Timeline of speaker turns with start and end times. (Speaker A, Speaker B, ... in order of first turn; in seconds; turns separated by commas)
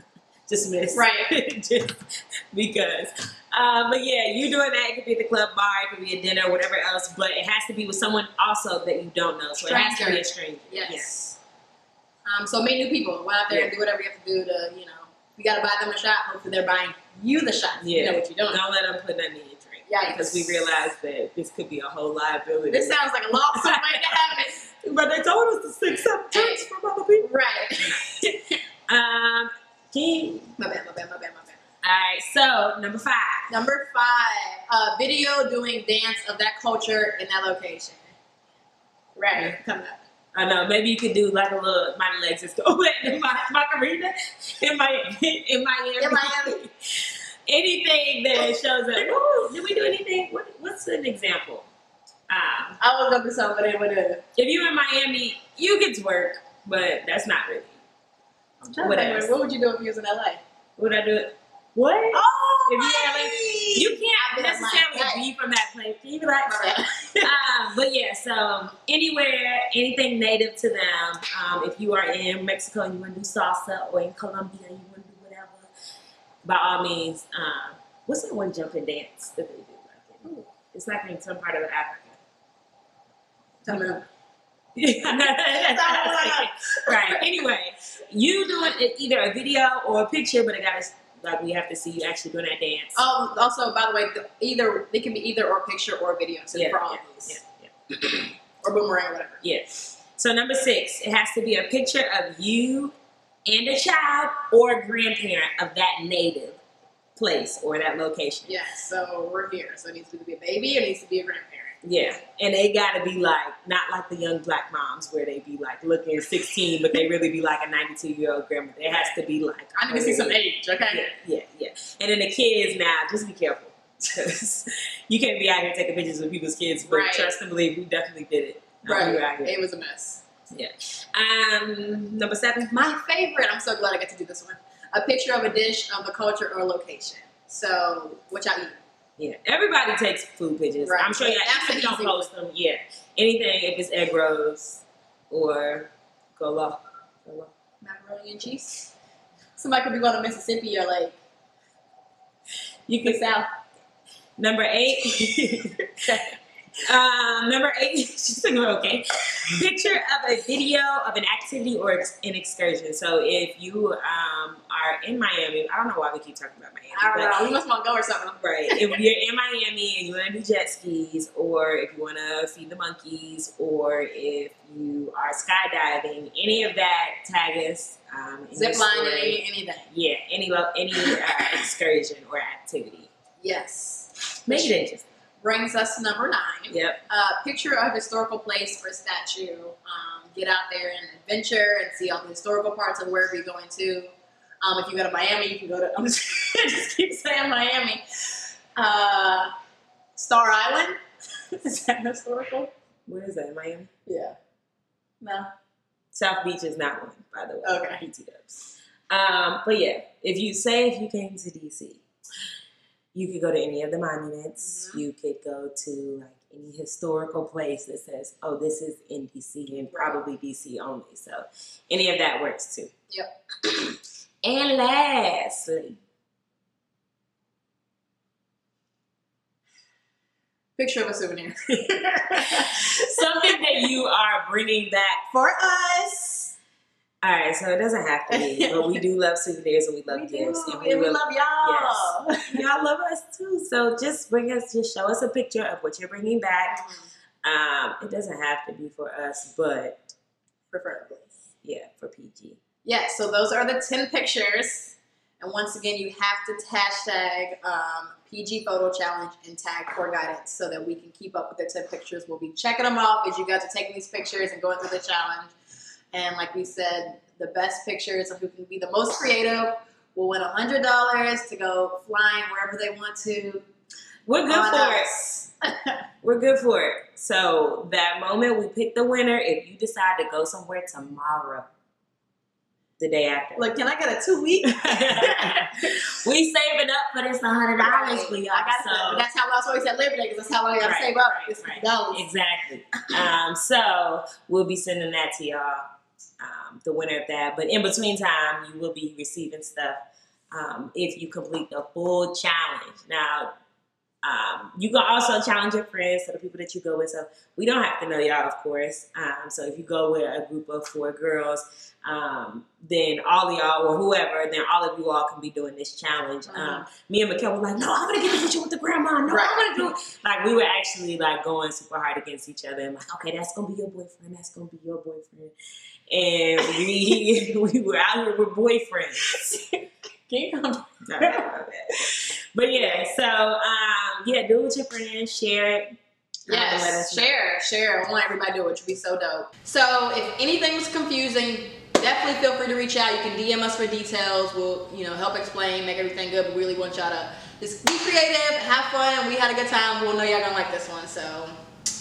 Speaker A: 0.5-1.9, Speaker B: 0.9-1.3, Speaker A: 2.5-11.2, Speaker B: 9.6-11.3, Speaker B: 12.2-18.6, Speaker A: 17.8-23.0, Speaker B: 19.9-20.6, Speaker B: 22.7-24.6, Speaker A: 23.5-27.3, Speaker B: 26.3-26.6, Speaker B: 27.2-28.6, Speaker A: 28.9-30.5, Speaker B: 30.6-31.6, Speaker A: 31.8-33.5, Speaker B: 33.5-38.1, Speaker B: 39.1-40.0, Speaker A: 39.3-39.6, Speaker A: 40.3-51.7, Speaker B: 46.0-46.6, Speaker A: 52.3-52.8, Speaker B: 52.8-54.2, Speaker A: 54.4-57.7, Speaker B: 58.6-60.4, Speaker A: 58.8-59.3, Speaker A: 60.8-75.7, Speaker B: 62.1-65.2, Speaker B: 66.5-67.3, Speaker A: 76.4-82.2, Speaker B: 83.6-84.0, Speaker A: 84.8-93.0, Speaker B: 85.2-87.3, Speaker B: 92.9-97.4, Speaker A: 96.5-97.7, Speaker B: 98.1-99.4, Speaker A: 99.4-102.9, Speaker A: 103.5-106.6, Speaker A: 107.2-108.5, Speaker B: 108.5-111.8, Speaker A: 111.8-129.6, Speaker B: 119.8-121.1, Speaker B: 126.8-127.4, Speaker B: 128.8-130.2, Speaker A: 130.5-132.9, Speaker B: 132.8-138.8, Speaker A: 139.2-147.5, Speaker B: 140.8-142.3, Speaker B: 147.8-148.9, Speaker B: 149.6-151.2, Speaker B: 152.9-153.5, Speaker A: 154.4-155.9, Speaker A: 156.9-167.4, Speaker B: 166.9-169.0, Speaker A: 168.4-183.1, Speaker B: 178.5-179.9, Speaker B: 180.9-181.6, Speaker B: 183.4-184.8, Speaker A: 184.4-185.0, Speaker B: 185.4-198.0, Speaker A: 186.7-187.0, Speaker B: 198.8-199.5, Speaker B: 200.2-201.0, Speaker B: 201.5-202.7, Speaker A: 203.1-203.9, Speaker B: 204.1-204.3, Speaker B: 205.2-205.5, Speaker A: 206.1-212.0, Speaker B: 207.6-208.0, Speaker A: 213.1-222.9, Speaker B: 214.6-215.0, Speaker B: 219.9-220.2, Speaker A: 224.4-226.0, Speaker B: 230.8-233.9, Speaker A: 232.4-235.2, Speaker B: 235.3-236.5, Speaker A: 237.2-246.8, Speaker B: 238.3-239.0, Speaker B: 240.1-242.6, Speaker B: 246.7-247.1, Speaker A: 247.4-250.1, Speaker B: 250.7-251.3, Speaker A: 251.6-252.6, Speaker B: 252.8-265.5, Speaker B: 266.1-273.7, Speaker A: 274.2-275.2, Speaker B: 274.5-275.5, Speaker A: 276.2-281.7, Speaker A: 283.0-283.7, Speaker B: 283.6-285.9, Speaker A: 284.6-289.2, Speaker B: 287.8-292.2, Speaker A: 290.8-295.8, Speaker A: 296.4-300.0, Speaker A: 300.5-303.5, Speaker A: 304.2-325.5, Speaker B: 316.5-316.9, Speaker B: 319.3-319.9, Speaker A: 326.1-329.4, Speaker B: 329.2-331.6, Speaker A: 331.1-335.9, Speaker B: 332.7-333.1, Speaker A: 336.5-337.3, Speaker B: 336.5-351.5